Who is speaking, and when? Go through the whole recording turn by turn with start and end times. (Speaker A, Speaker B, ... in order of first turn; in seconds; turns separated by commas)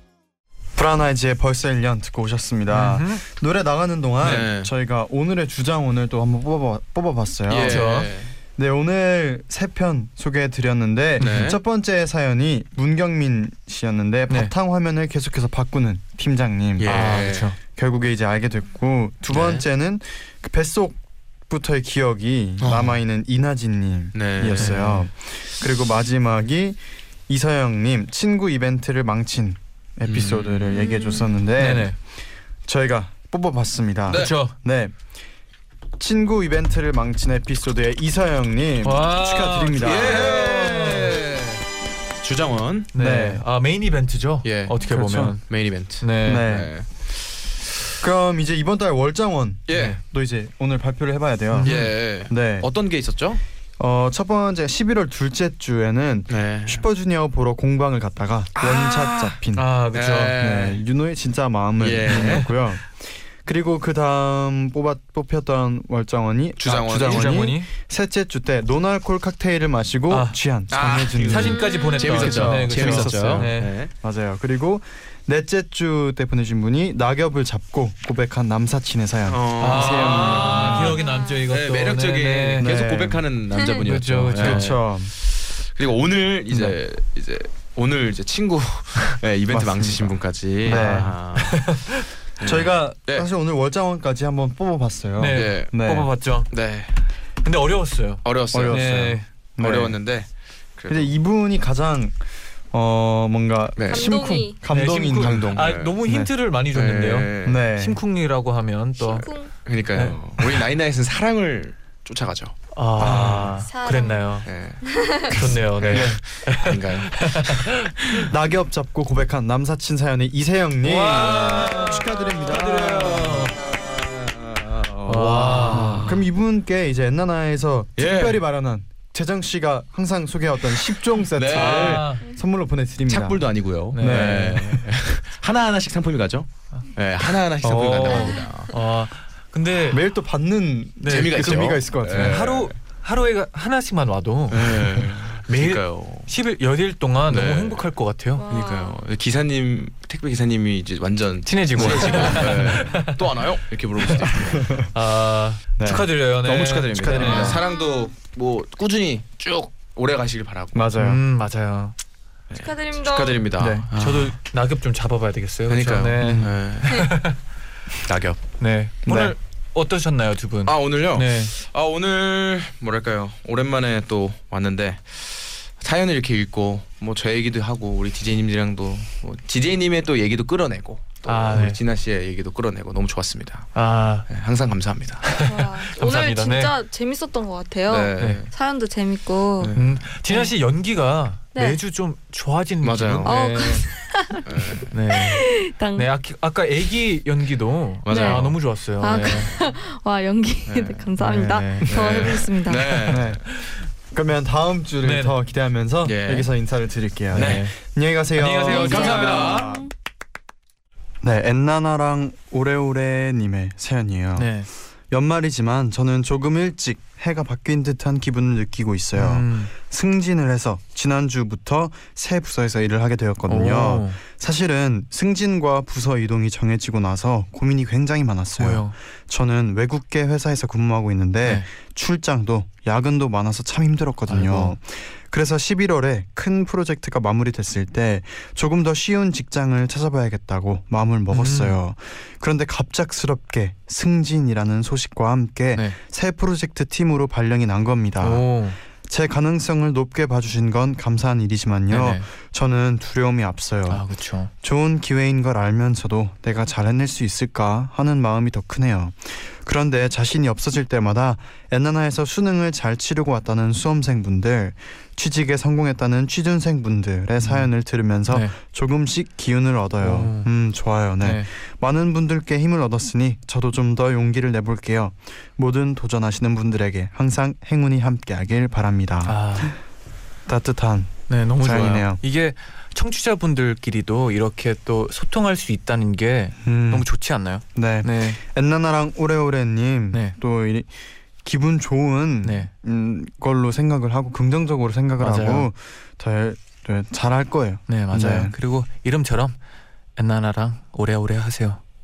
Speaker A: 0.8-7.9, Speaker B: 2.7-3.2, Speaker C: 4.2-4.7, Speaker C: 7.5-8.3, Speaker B: 7.6-8.1, Speaker A: 8.6-17.0, Speaker B: 11.2-11.6, Speaker C: 11.2-11.6, Speaker C: 16.8-17.5, Speaker B: 16.8-17.6, Speaker A: 17.7-31.9, Speaker C: 19.3-19.6, Speaker C: 22.6-23.0, Speaker C: 24.1-25.0, Speaker B: 24.6-25.0, Speaker C: 30.0-30.9, Speaker D: 30.7-31.3, Speaker B: 31.6-31.9, Speaker A: 32.6-35.0, Speaker C: 34.1-34.4, Speaker B: 34.1-34.5, Speaker A: 36.0-40.4, Speaker B: 38.8-41.2, Speaker C: 39.8-41.6, Speaker C: 42.2-42.9, Speaker B: 42.9-45.5, Speaker A: 43.0-43.4, Speaker C: 44.4-46.9, Speaker A: 44.9-45.4, Speaker B: 46.0-46.5, Speaker A: 46.2-46.7, Speaker A: 48.0-52.7, Speaker C: 49.7-50.0, Speaker B: 49.7-50.0, Speaker B: 51.5-52.0, Speaker C: 51.6-53.4, Speaker A: 53.8-59.8, Speaker C: 56.3-56.9, Speaker C: 58.5-59.4, Speaker B: 59.5-60.5, Speaker C: 59.9-60.8, Speaker A: 60.3-71.6, Speaker C: 61.8-62.4, Speaker B: 62.3-62.6, Speaker C: 66.6-67.4, Speaker B: 67.0-67.7, Speaker B: 70.1-70.4, Speaker C: 70.7-73.9, Speaker B: 71.2-73.7, Speaker D: 71.6-72.2, Speaker A: 72.2-81.0, Speaker C: 79.3-81.0, Speaker B: 79.6-82.8, Speaker D: 81.0-81.4, Speaker C: 81.5-91.7, Speaker A: 82.6-83.2, Speaker B: 83.7-84.7, Speaker A: 84.3-85.1, Speaker A: 86.5-86.8, Speaker A: 89.5-91.1, Speaker B: 90.7-92.1, Speaker C: 92.4-93.3, Speaker A: 92.4-96.1, Speaker B: 95.2-96.5, Speaker C: 95.3-95.8, Speaker C: 96.5-96.9, Speaker B: 97.4-99.3, Speaker C: 98.2-101.1, Speaker A: 98.5-100.0, Speaker A: 100.9-102.2, Speaker A: 102.7-106.3, Speaker C: 103.8-104.5, Speaker D: 103.9-104.6, Speaker B: 104.7-109.2, Speaker C: 105.1-106.0, Speaker C: 106.7-107.6, Speaker A: 107.4-108.0, Speaker D: 109.0-109.5, Speaker C: 109.5-113.5, Speaker B: 109.9-110.6, Speaker B: 112.7-114.5, Speaker A: 113.0-113.6, Speaker D: 113.6-114.3, Speaker C: 114.5-118.3, Speaker D: 114.8-115.2, Speaker B: 115.3-118.2, Speaker A: 115.9-116.2, Speaker A: 118.2-123.4, Speaker B: 120.8-123.6, Speaker C: 121.1-126.2, Speaker B: 125.0-126.1, Speaker A: 125.7-134.7, Speaker C: 128.0-128.4, Speaker C: 131.3-132.1, Speaker B: 131.5-132.2, Speaker C: 133.1-138.7, Speaker B: 133.9-134.8, Speaker A: 137.6-138.2, Speaker B: 137.9-140.0, Speaker A: 139.9-142.5, Speaker B: 141.0-148.5, Speaker C: 141.1-142.8, Speaker C: 144.5-146.3, Speaker C: 147.3-147.8, Speaker D: 148.3-149.0, Speaker C: 148.5-154.7, Speaker B: 151.4-153.3, Speaker D: 152.0-152.4, Speaker A: 154.6-154.9, Speaker B: 154.9-157.6, Speaker A: 155.8-156.1, Speaker C: 156.3-160.9, Speaker D: 157.1-158.1, Speaker A: 160.7-161.2, Speaker B: 160.9-161.9, Speaker C: 162.5-164.3, Speaker D: 162.5-163.4, Speaker A: 163.6-163.9, Speaker B: 163.9-167.4, Speaker C: 165.7-167.1, Speaker D: 166.8-167.1, Speaker C: 168.0-168.4, Speaker B: 168.6-171.5, Speaker A: 169.1-169.3, Speaker C: 170.6-183.7, Speaker B: 181.2-181.8, Speaker B: 183.7-184.3, Speaker C: 184.3-185.3, Speaker B: 185.2-186.7, Speaker D: 185.4-189.7, Speaker C: 187.9-188.5, Speaker B: 188.2-188.4, Speaker C: 189.6-190.0, Speaker B: 189.7-193.8, Speaker D: 191.5-191.8, Speaker C: 192.8-193.4, Speaker D: 193.2-194.4, Speaker C: 194.4-194.9, Speaker B: 194.9-199.6, Speaker D: 195.1-196.1, Speaker C: 198.0-198.6, Speaker D: 198.1-198.4, Speaker D: 199.0-203.1, Speaker C: 200.7-201.1, Speaker B: 201.3-201.9, Speaker C: 201.8-203.4, Speaker A: 203.1-203.4, Speaker A: 204.1-209.5, Speaker B: 205.0-205.3, Speaker C: 206.0-206.5, Speaker C: 207.3-207.6, Speaker B: 207.3-207.7, Speaker B: 208.3-209.7, Speaker D: 208.7-209.9, Speaker C: 208.7-209.8, Speaker A: 211.2-214.5, Speaker B: 214.4-214.7, Speaker A: 215.1-279.7, Speaker B: 219.2-219.7, Speaker B: 223.5-224.2, Speaker B: 228.6-228.9, Speaker B: 234.3-234.7, Speaker B: 241.3-241.8, Speaker B: 248.2-248.8, Speaker B: 251.9-252.2, Speaker B: 253.9-254.5, Speaker B: 267.4-267.7, Speaker B: 268.3-268.5, Speaker B: 270.0-270.5, Speaker B: 271.2-271.5, Speaker B: 279.2-279.8, Speaker A: 280.4-282.2, Speaker B: 281.3-288.4, Speaker A: 286.6-287.1, Speaker A: 287.7-290.9, Speaker A: 291.4-298.5, Speaker B: 292.4-292.7, Speaker B: 295.2-295.7, Speaker B: 297.9-299.6, Speaker B: 300.1-301.8